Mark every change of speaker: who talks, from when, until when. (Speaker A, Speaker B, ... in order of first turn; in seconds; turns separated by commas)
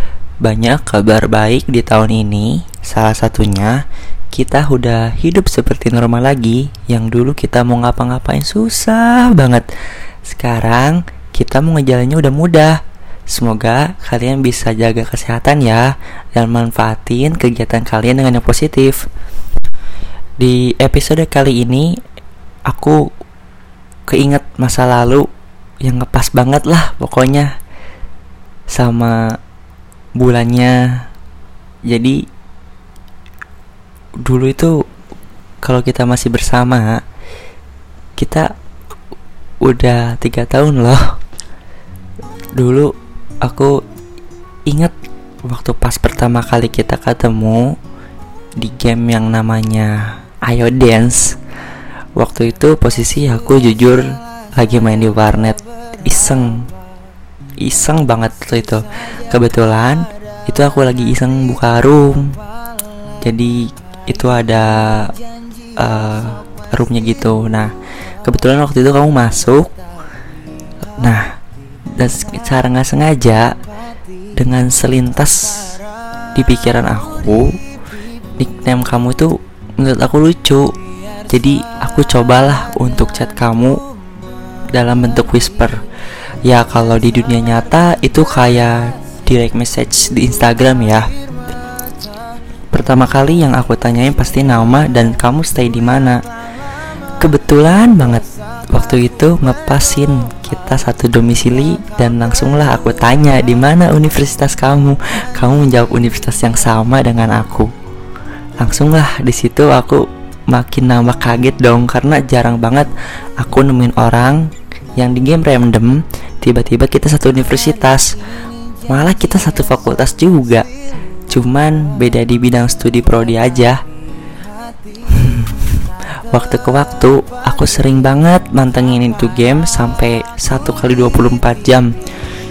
Speaker A: 0.4-3.8, Speaker A: 4.3-9.6, Speaker A: 10.2-12.8, Speaker A: 13.3-19.0, Speaker A: 20.4-21.9, Speaker A: 22.7-23.0, Speaker A: 24.1-25.3, Speaker A: 25.8-27.5, Speaker A: 28.7-29.2, Speaker A: 30.2-30.8, Speaker A: 31.9-32.2, Speaker A: 34.2-34.7, Speaker A: 35.6-37.0, Speaker A: 38.2-38.5, Speaker A: 39.6-41.0, Speaker A: 42.6-42.9, Speaker A: 43.4-43.7, Speaker A: 44.7-44.9, Speaker A: 45.5-47.7, Speaker A: 48.6-49.9, Speaker A: 50.5-51.3, Speaker A: 52.2-54.0, Speaker A: 54.6-56.6, Speaker A: 57.6-62.3, Speaker A: 63.2-63.6, Speaker A: 64.1-65.1, Speaker A: 65.8-67.7, Speaker A: 68.2-69.7, Speaker A: 72.0-73.5, Speaker A: 74.3-75.4, Speaker A: 76.3-77.5, Speaker A: 78.4-80.7, Speaker A: 81.3-83.8, Speaker A: 84.7-85.8, Speaker A: 86.4-91.0, Speaker A: 92.7-96.2, Speaker A: 97.2-107.7, Speaker A: 108.6-112.9, Speaker A: 113.4-114.5, Speaker A: 115.0-118.1, Speaker A: 118.9-120.6, Speaker A: 121.3-123.8, Speaker A: 125.1-131.9